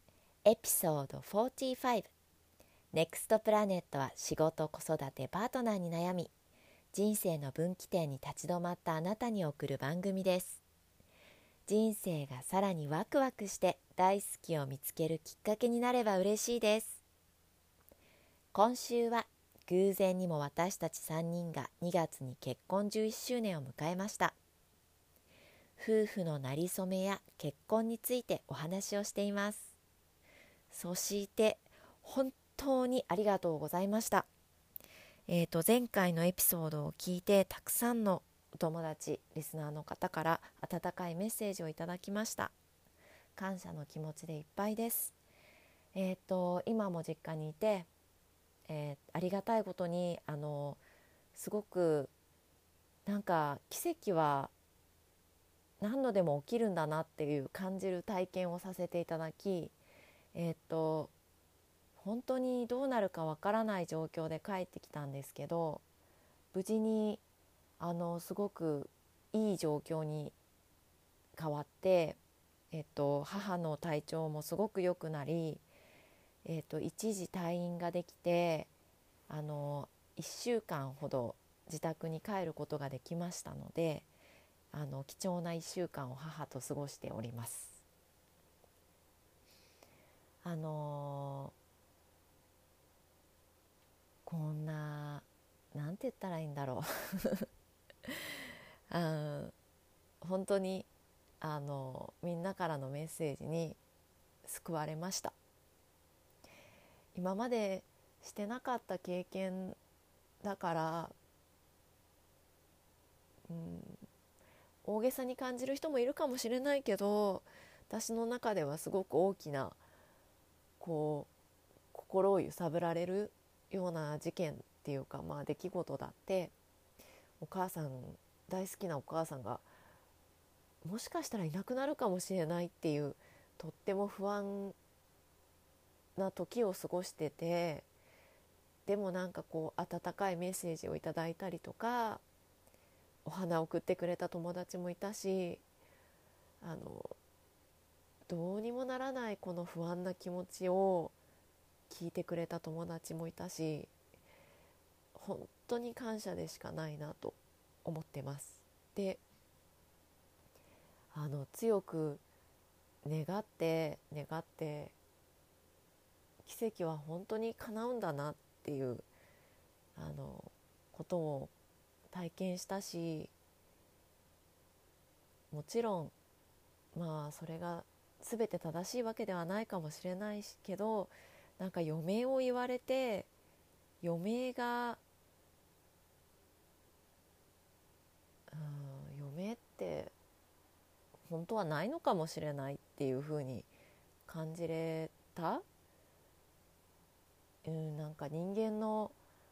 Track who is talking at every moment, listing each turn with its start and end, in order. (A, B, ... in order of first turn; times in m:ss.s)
0:00.4-0:02.1 A
0:02.9-0:06.3 A
0:06.9-0:10.6 A
0:11.7-0:17.0 A
0:18.5-0:24.3 A
0:25.8-0:29.7 A
0:30.7-0:34.3 A
0:35.3-0:42.5 A
0:43.4-0:45.1 A
0:45.9-0:47.9 A
0:48.7-0:50.8 A
0:51.3-0:52.1 A
0:53.0-0:54.5 A
0:55.8-0:59.7 A
1:00.3-1:01.1 A
1:02.0-1:05.8 A
1:06.5-1:07.2 A
1:07.8-1:10.3 A
1:11.3-1:12.2 A
1:12.7-1:15.6 A
1:16.4-1:18.7 A
1:19.3-1:24.1 A
1:24.7-1:27.7 A
1:30.4-1:31.5 A
1:34.2-1:37.5 A
1:38.9-1:39.5 A
1:40.2-1:40.9 A
1:41.4-1:43.8 A
1:44.4-1:45.3 A
1:47.1-1:49.8 A
1:50.4-1:51.1 A
1:53.5-1:54.0 A
1:54.8-1:59.8 A
2:00.8-2:01.3 A
2:01.9-2:06.5 A
2:07.4-2:09.6 A
2:10.8-2:14.8 A
2:16.2-2:17.8 A
2:18.8-2:22.2 A
2:23.2-2:25.6 A
2:26.6-2:27.1 A
2:28.3-2:31.1 A
2:31.9-2:33.9 A
2:35.1-2:39.2 A
2:41.1-2:42.2 A
2:43.0-2:44.9 A
2:46.4-2:49.0 A
2:50.0-2:51.5 A
2:52.1-2:53.3 A
2:55.5-2:56.1 A
2:56.9-3:03.3 A
3:04.0-3:05.0 A
3:08.5-3:10.1 A
3:11.2-3:13.7 A
3:14.3-3:15.6 A
3:17.6-3:19.1 A